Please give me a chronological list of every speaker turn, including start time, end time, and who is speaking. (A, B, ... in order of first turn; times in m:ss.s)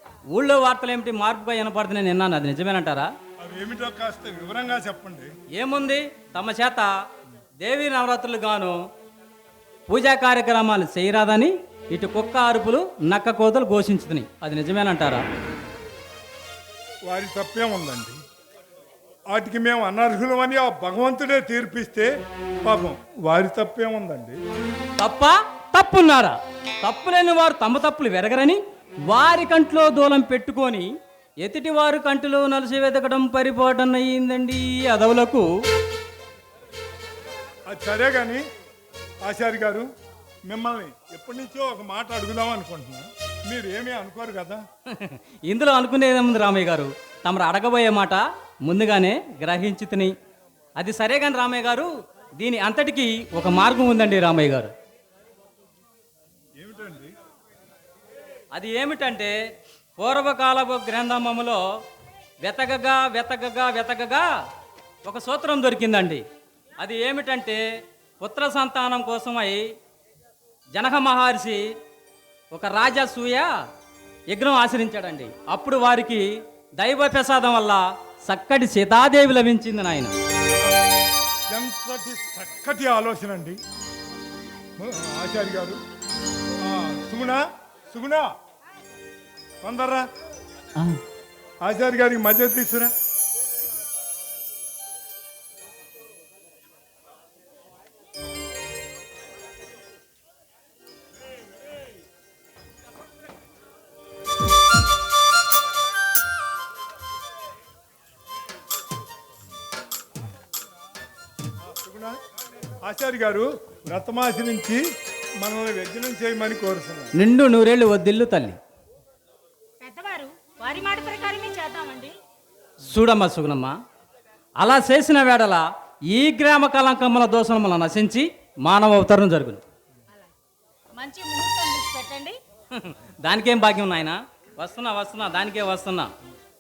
0:00.3-0:03.1 A
0:03.4-0:05.3 B
0:05.5-0:06.9 A
0:07.6-0:08.8 A
0:09.9-0:15.2 A
0:17.0-0:18.2 B
0:19.3-0:22.1 B
0:22.6-0:24.4 B
0:25.0-0:30.9 A
0:31.4-0:35.4 A
0:37.7-0:38.4 B
0:39.2-0:39.9 B
0:40.4-0:44.6 B
0:44.9-0:50.1 A
0:50.8-0:54.7 A
0:56.6-0:57.1 B
0:58.5-0:59.4 A
1:00.0-1:01.6 A
1:02.4-1:04.2 A
1:05.0-1:06.2 A
1:06.8-1:07.6 A
1:08.2-1:09.6 A
1:10.7-1:11.6 A
1:12.5-1:13.5 A
1:14.3-1:16.3 A
1:16.8-1:20.1 A
1:21.5-1:23.6 B
1:24.8-1:25.8 B
1:26.6-1:28.3 B
1:29.6-1:30.1 B
1:31.6-1:32.9 B
1:51.6-1:52.2 B
1:52.8-1:54.8 B
1:55.4-1:57.1 B
1:57.2-1:58.6 A
1:59.8-2:02.1 C
2:02.9-2:03.8 A
2:04.6-2:09.6 A
2:11.0-2:12.4 C
2:12.7-2:16.1 A